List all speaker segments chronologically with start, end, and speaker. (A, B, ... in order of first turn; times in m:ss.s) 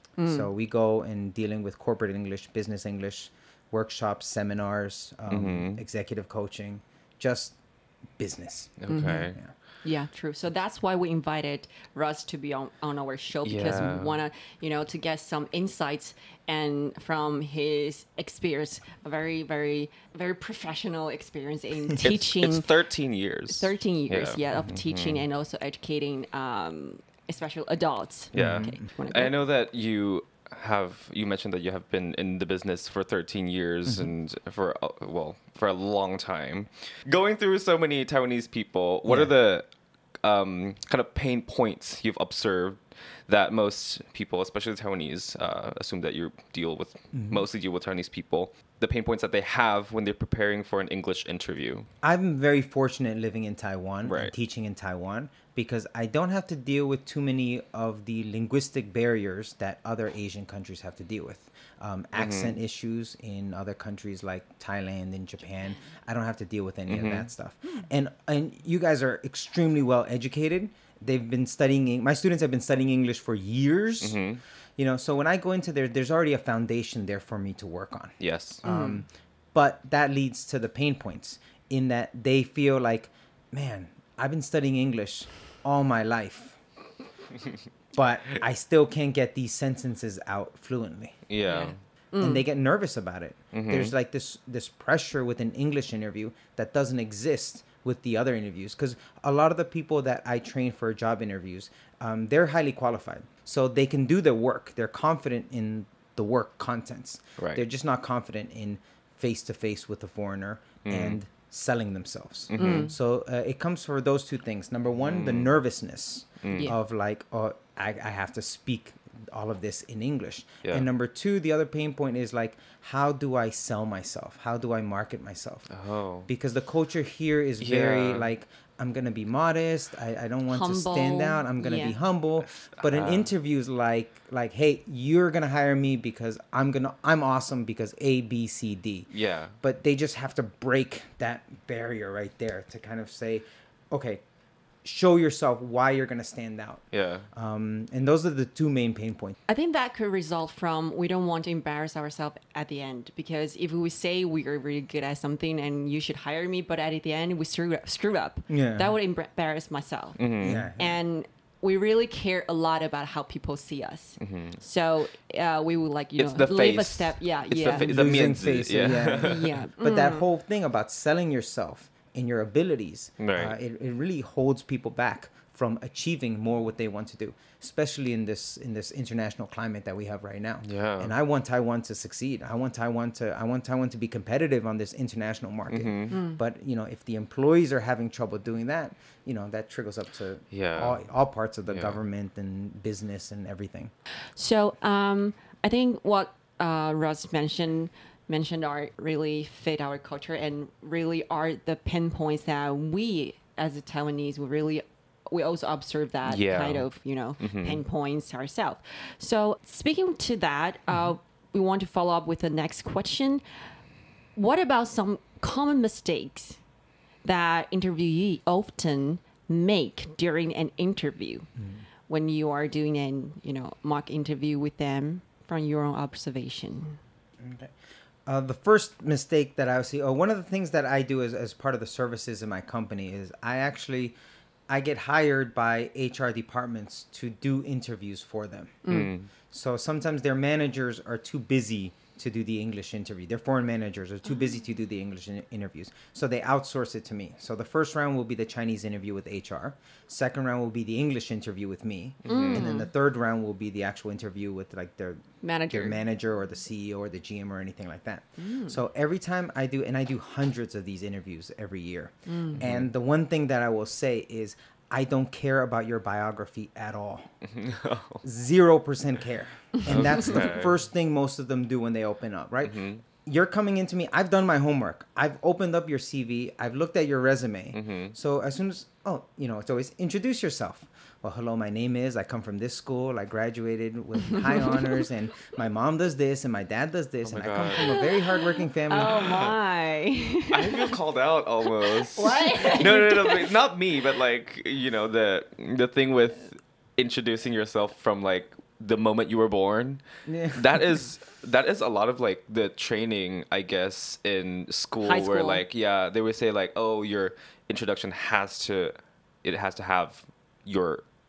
0:00.2-0:00.5 A
0:00.3-0:07.6 B
0:05.3-0:05.8 C
0:08.2-0:08.8 B
0:08.8-0:09.4 C
0:08.9-0:22.7 A
0:13.4-0:14.2 C
0:22.0-0:25.2 C
0:23.5-0:29.3 A
0:28.3-0:28.8 B
0:28.3-0:39.7 C
0:33.8-0:34.1 B
0:39.1-0:39.3 B
0:40.2-0:51.9 C
0:47.1-0:47.4 B
0:52.0-1:14.2 B
0:54.0-0:54.3 C
1:02.2-1:02.6 C
1:06.9-1:07.3 C
1:14.0-1:14.4 C
1:14.8-1:26.6 B
1:18.2-1:18.6 C
1:18.6-1:19.0 A
1:27.9-1:31.2 B
1:31.3-1:31.7 C
1:31.5-1:32.4 A
1:32.2-2:05.7 B
1:33.5-1:33.9 C
1:47.4-1:47.6 C
1:50.8-1:51.2 C
1:52.5-1:52.9 C
1:52.6-1:52.9 A
1:55.0-1:55.5 C
1:56.4-1:56.7 C
2:05.7-2:06.3 C
2:06.3-2:19.1 B
2:07.6-2:08.3 C
2:10.5-2:12.0 A
2:12.6-2:13.3 C
2:19.1-2:19.5 C
2:19.6-2:24.2 B
2:24.8-2:29.4 B
2:26.9-2:27.3 C
2:29.5-2:48.0 A
2:38.5-2:39.0 B
2:40.2-2:40.7 C
2:40.4-2:41.0 B
2:44.2-2:44.6 C
2:46.2-2:49.6 C
2:47.7-3:13.9 B
2:49.2-2:50.2 A
2:53.2-2:53.6 C
3:00.6-3:01.1 C
3:05.7-3:06.2 C
3:06.1-3:06.4 A
3:10.5-3:11.0 C
3:11.7-3:12.0 C
3:14.4-3:33.4 A
3:26.3-3:26.8 C
3:27.4-3:27.8 C
3:34.4-3:36.6 A
3:37.2-3:41.5 A
3:42.1-3:47.0 A
3:47.4-3:47.8 B
3:48.3-3:54.2 B
3:54.7-3:58.8 B
3:58.8-3:59.1 A
3:58.9-3:59.3 C
3:59.5-4:27.3 B
4:12.2-4:12.7 C
4:12.3-4:12.9 A
4:15.4-4:16.0 A
4:18.4-4:18.8 A
4:22.3-4:22.6 A
4:22.6-4:22.9 C
4:27.4-4:28.2 C
4:28.2-4:49.3 B
4:29.8-4:30.2 A
4:29.9-4:30.8 C
4:32.6-4:33.0 C
4:37.7-4:38.2 C
4:44.2-4:45.0 A
4:47.2-4:48.0 C
4:47.8-4:51.0 A
4:49.0-4:49.6 C
4:50.5-5:11.0 C
4:51.7-4:53.5 A
5:00.3-5:00.8 B
5:05.0-5:05.6 A